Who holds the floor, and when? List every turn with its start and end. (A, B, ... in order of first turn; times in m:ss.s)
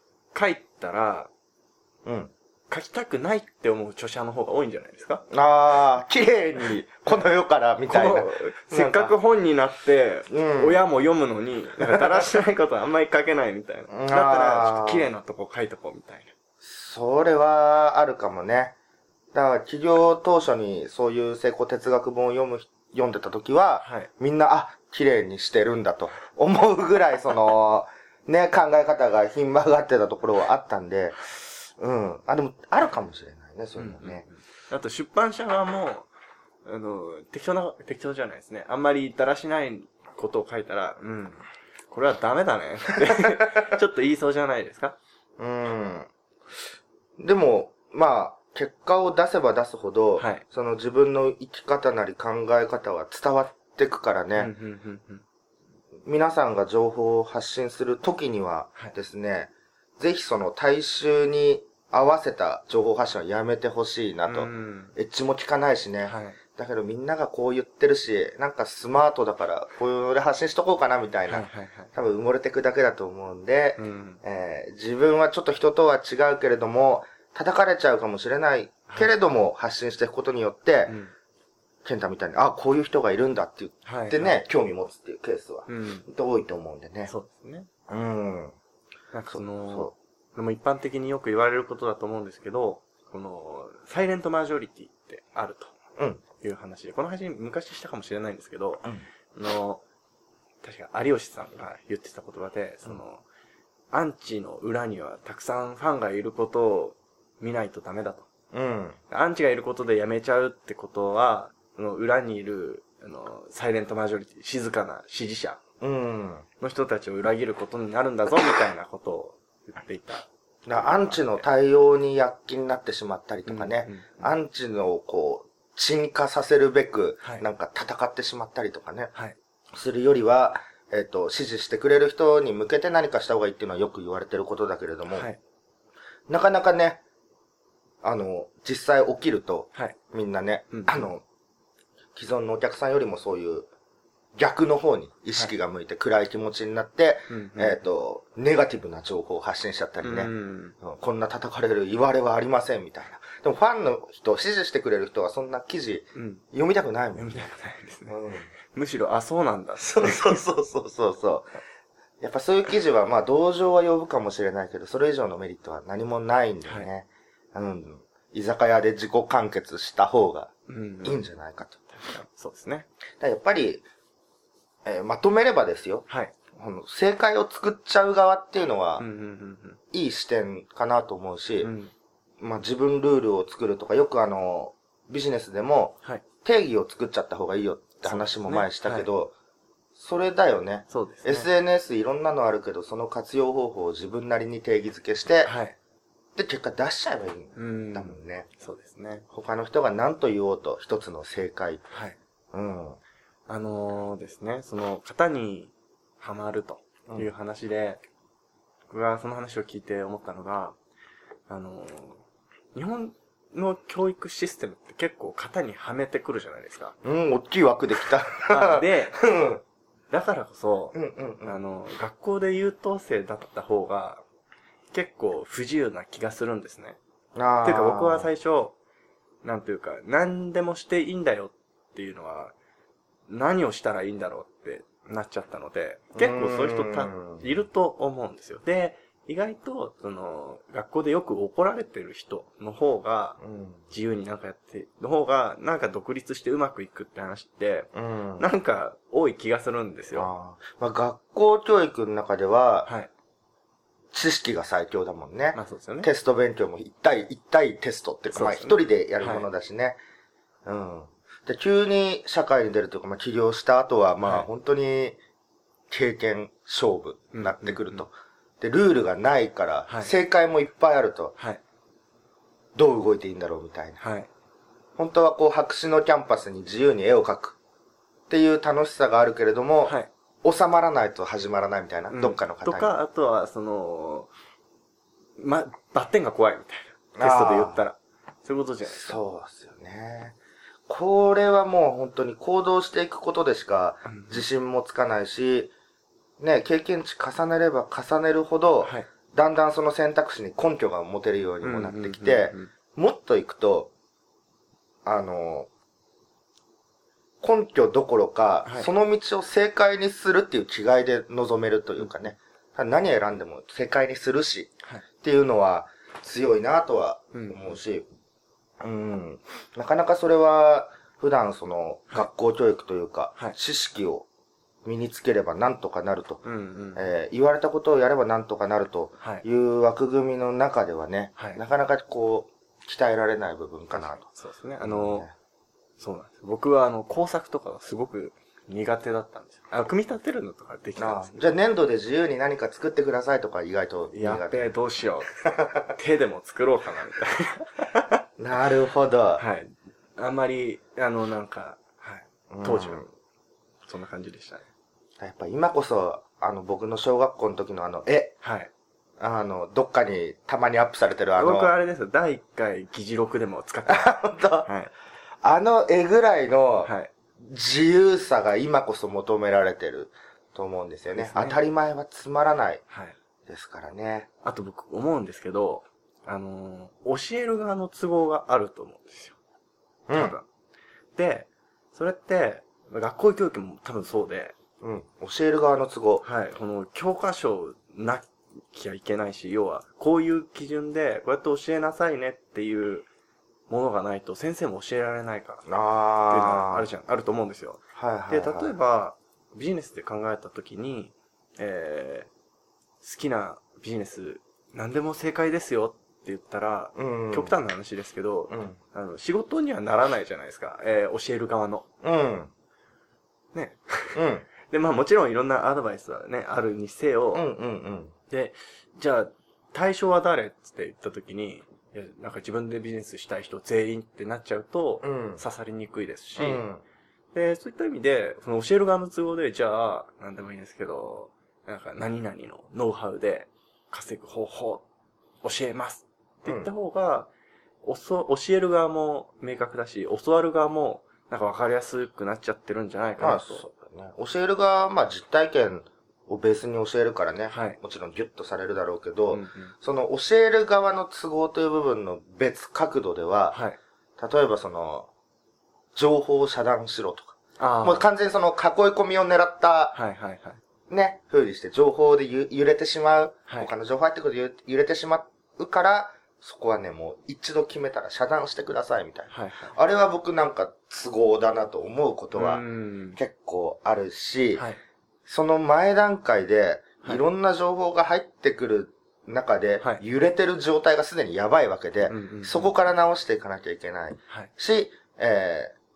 0:00.3-0:01.3 A
0:02.0-0:02.3 B
0:02.7-0:05.2 A
0:05.3-0:09.2 B
0:07.9-0:16.3 A
0:10.3-0:10.8 B
0:11.9-0:12.4 B
0:13.9-0:15.1 B
0:16.6-0:18.7 B
0:19.3-0:34.2 B
0:23.8-0:24.1 A
0:33.8-0:36.1 A
0:36.6-0:45.0 A
0:45.4-0:46.1 B
0:47.2-0:54.5 B
0:50.2-0:50.4 A
0:54.4-0:55.2 A
0:56.0-1:20.9 B
1:04.3-1:04.9 A
1:06.0-1:06.4 A
1:11.3-1:11.9 A
1:13.8-1:14.2 A
1:20.8-1:21.1 A
1:21.8-1:27.1 B
1:23.8-1:24.4 A
1:25.7-1:26.1 A
1:27.1-1:27.7 A
1:27.9-1:28.5 B
1:29.1-1:35.7 A
1:29.3-1:29.9 B
1:36.4-1:39.8 A
1:40.6-1:43.2 A
1:43.9-1:48.3 A
1:48.5-1:49.0 B
1:49.1-1:55.6 A
1:55.8-1:56.4 B
1:56.6-2:01.4 A
2:00.6-2:09.1 B
2:03.4-2:04.3 A
2:09.7-2:15.3 B
2:15.1-2:15.4 A
2:16.3-2:17.0 B
2:18.0-2:21.2 B
2:20.7-2:21.1 A
2:22.1-2:23.7 B
2:24.4-2:37.3 B
2:27.3-2:27.8 A
2:30.0-2:30.7 A
2:36.1-2:36.4 A
2:37.1-2:38.2 A
2:38.1-2:38.5 B
2:38.7-2:40.4 A
2:39.8-2:41.5 B
2:42.2-2:50.5 B
2:50.7-2:51.2 A
2:51.0-2:51.8 B
2:51.9-2:52.9 A
2:53.2-2:53.8 B
2:54.8-2:59.0 B
2:56.1-2:56.3 A
2:59.0-2:59.8 A
2:59.9-3:01.7 B
3:01.6-3:01.9 A
3:02.4-3:09.3 B
3:08.0-3:09.1 A
3:10.0-3:15.5 B
3:10.9-3:11.5 A
3:15.4-3:15.8 A
3:16.3-3:18.5 B
3:17.6-3:19.2 A
3:19.3-3:21.8 B
3:21.9-3:22.2 A
3:22.5-3:23.0 B
3:23.5-3:28.0 A
3:28.9-3:30.8 A
3:31.5-3:32.2 A
3:32.7-3:36.9 A
3:37.0-3:39.6 B
3:38.5-3:39.2 A
3:40.1-3:44.2 A
3:40.9-3:41.6 B
3:44.9-3:47.0 A
3:47.3-3:48.3 B
3:47.6-3:48.8 A
3:49.4-3:52.5 A
3:53.3-4:03.4 A
3:56.1-3:57.4 B
4:03.4-4:03.8 B
4:03.9-4:10.3 A
4:07.9-4:08.5 B
4:10.1-4:12.9 B
4:14.1-4:20.0 B
4:15.5-4:16.1 A
4:18.3-4:19.5 A
4:20.6-4:25.2 B
4:24.2-4:24.5 A
4:25.9-4:31.3 B
4:27.3-4:28.0 A
4:29.9-4:30.1 A
4:32.7-4:34.0 B
4:34.0-4:34.3 A
4:35.0-4:37.6 B
4:38.3-4:43.0 B
4:39.8-4:40.1 A
4:42.1-4:44.3 A
4:45.4-4:49.2 A
4:47.2-4:47.8 B
4:48.8-4:50.4 B
4:50.9-4:55.7 B
4:54.0-4:54.4 A
4:56.4-5:03.9 B
5:01.6-5:02.7 A
5:05.0-5:05.7 B
5:07.4-5:18.0 B
5:12.0-5:12.3 A
5:17.3-5:17.8 A
5:18.8-5:24.2 B
5:24.8-5:26.4 B
5:26.4-5:27.1 A
5:26.9-5:34.2 B
5:33.9-5:35.3 A
5:34.8-5:35.3 B
5:36.0-5:41.5 A
5:41.0-5:44.7 B
5:44.1-5:48.1 A
5:45.5-5:45.8 B
5:48.4-5:49.4 B
5:49.4-5:53.1 A
5:52.5-5:53.1 B
5:53.8-5:54.6 A
5:55.2-5:58.4 B
5:58.4-5:58.7 A
5:59.2-6:01.7 B
6:01.4-6:04.9 A
6:03.8-6:04.7 B
6:05.4-6:12.8 B
6:06.8-6:07.1 A
6:11.1-6:11.6 A
6:12.9-6:13.1 A
6:13.5-6:14.3 B
6:14.4-6:19.4 A
6:20.1-6:20.4 B
6:20.1-6:20.4 A
6:21.1-6:24.5 A
6:24.8-6:26.2 B
6:26.2-6:33.1 A
6:33.7-6:35.7 A
6:35.7-6:36.9 B
6:36.3-6:42.3 A
6:37.9-6:38.7 B
6:43.0-6:51.8 A
6:47.0-6:47.6 B
6:48.5-6:48.8 B
6:52.0-6:52.5 B
6:53.5-6:57.5 A
6:54.1-6:54.5 B
6:57.3-6:58.1 B
6:58.3-7:06.6 A
7:05.0-7:05.4 B
7:06.4-7:06.8 B
7:07.3-7:14.8 A
7:15.4-7:17.3 A
7:16.4-7:16.7 B
7:17.8-7:23.6 A
7:23.2-7:33.6 B
7:27.5-7:27.8 A
7:29.3-7:29.7 A
7:33.5-7:33.8 A
7:34.2-7:35.1 B
7:35.9-7:40.0 B
7:37.6-7:38.1 A
7:39.9-7:40.6 A
7:40.9-7:52.6 B
7:49.3-7:49.8 A
7:52.3-7:53.2 A
7:53.2-7:54.6 B
7:55.3-8:05.7 B
8:02.1-8:02.7 A